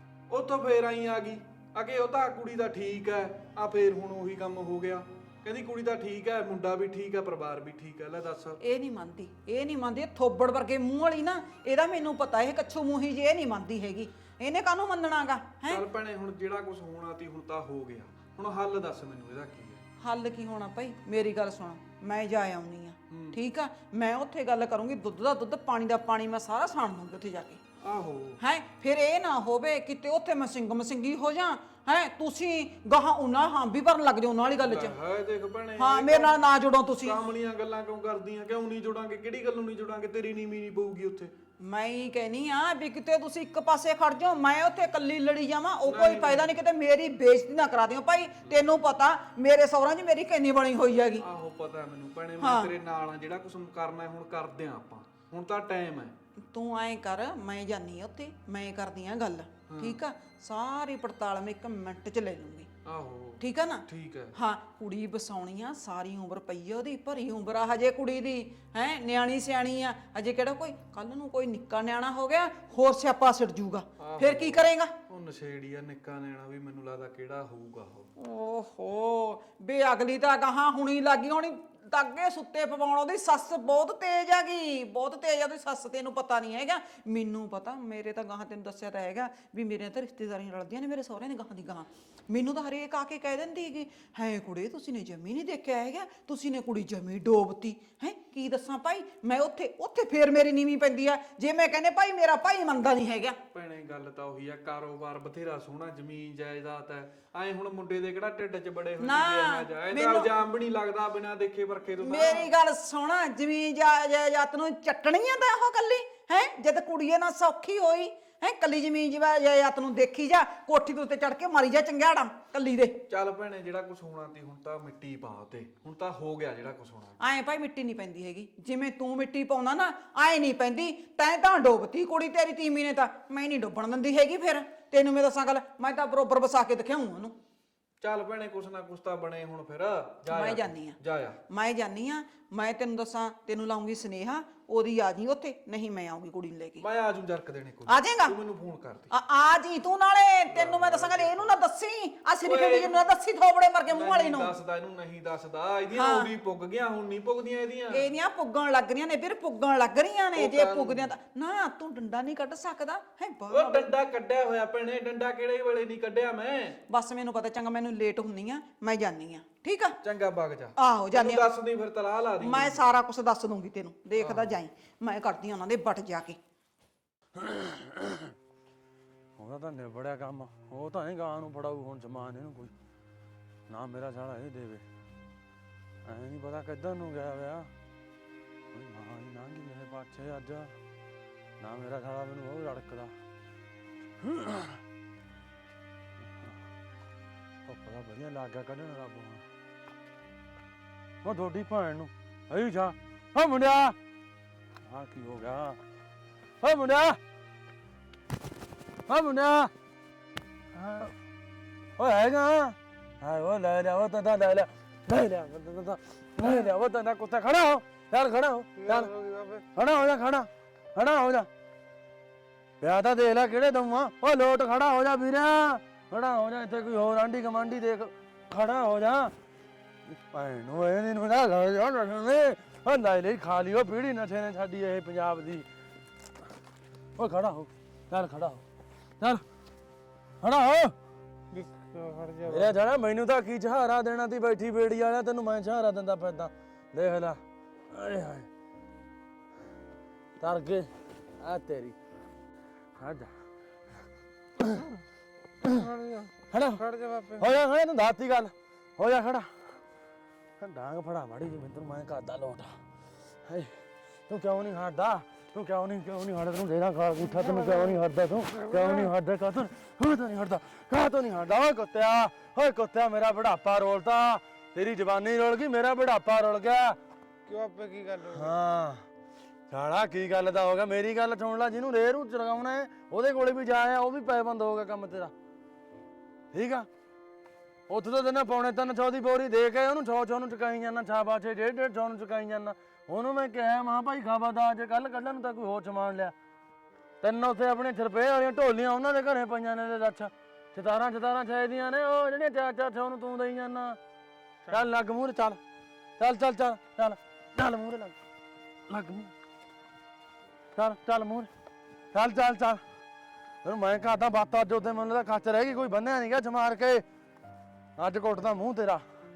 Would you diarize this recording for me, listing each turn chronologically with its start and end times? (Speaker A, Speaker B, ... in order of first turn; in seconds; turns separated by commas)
Speaker A: 0.3-8.6, Speaker B: 8.6-15.8, Speaker A: 15.7-19.8, Speaker B: 20.0-27.6, Speaker A: 23.1-23.4, Speaker A: 27.8-28.4, Speaker B: 28.4-35.0, Speaker A: 34.6-36.4, Speaker B: 35.8-37.2, Speaker A: 37.0-41.3, Speaker B: 41.6-51.2, Speaker A: 45.9-46.6, Speaker A: 51.2-56.1, Speaker B: 52.4-52.7, Speaker B: 56.5-62.7, Speaker A: 59.7-60.0, Speaker A: 62.9-64.3, Speaker B: 63.4-74.9, Speaker A: 74.0-78.1, Speaker B: 78.2-103.4, Speaker A: 103.5-112.5, Speaker B: 109.0-110.3, Speaker B: 112.0-123.0, Speaker A: 123.1-127.2, Speaker B: 127.2-137.3, Speaker A: 138.0-141.4, Speaker B: 140.3-141.0, Speaker B: 141.5-146.8, Speaker A: 146.8-149.1, Speaker B: 147.9-148.4, Speaker B: 149.1-154.5, Speaker A: 150.5-151.5, Speaker A: 152.4-153.0, Speaker A: 153.9-158.1, Speaker B: 155.9-156.3, Speaker B: 157.9-163.9, Speaker A: 160.3-161.1, Speaker A: 163.5-166.8, Speaker B: 166.9-169.9, Speaker A: 170.0-172.8, Speaker B: 170.8-171.5, Speaker B: 172.4-176.4, Speaker A: 174.2-174.6, Speaker C: 177.4-178.3, Speaker C: 179.4-182.7, Speaker C: 183.7-184.8, Speaker C: 186.1-187.7, Speaker C: 188.7-190.7, Speaker C: 191.6-193.1, Speaker C: 194.2-194.8, Speaker C: 196.2-196.6, Speaker C: 197.7-199.4, Speaker C: 201.2-204.0, Speaker C: 204.8-205.8, Speaker C: 206.6-207.2, Speaker C: 209.1-209.7, Speaker C: 210.8-211.1, Speaker C: 212.0-221.5, Speaker D: 218.9-219.6, Speaker C: 222.8-229.3, Speaker C: 230.1-235.7, Speaker C: 237.2-238.6, Speaker C: 240.4-240.9, Speaker D: 241.5-242.7, Speaker C: 242.4-247.4, Speaker C: 247.9-248.5, Speaker C: 250.4-252.0, Speaker C: 253.0-253.3, Speaker C: 254.6-254.9, Speaker C: 255.6-255.9, Speaker C: 256.5-259.5, Speaker C: 260.6-262.8, Speaker C: 263.5-263.8, Speaker C: 264.3-277.0, Speaker D: 277.5-278.5, Speaker C: 278.2-279.1, Speaker C: 279.7-285.3, Speaker C: 286.5-286.9, Speaker C: 287.9-296.3, Speaker C: 297.2-304.0, Speaker C: 304.7-305.6, Speaker C: 306.2-308.2, Speaker C: 308.9-309.3, Speaker C: 310.8-311.5, Speaker C: 312.1-312.8, Speaker C: 313.6-317.0, Speaker C: 318.0-319.0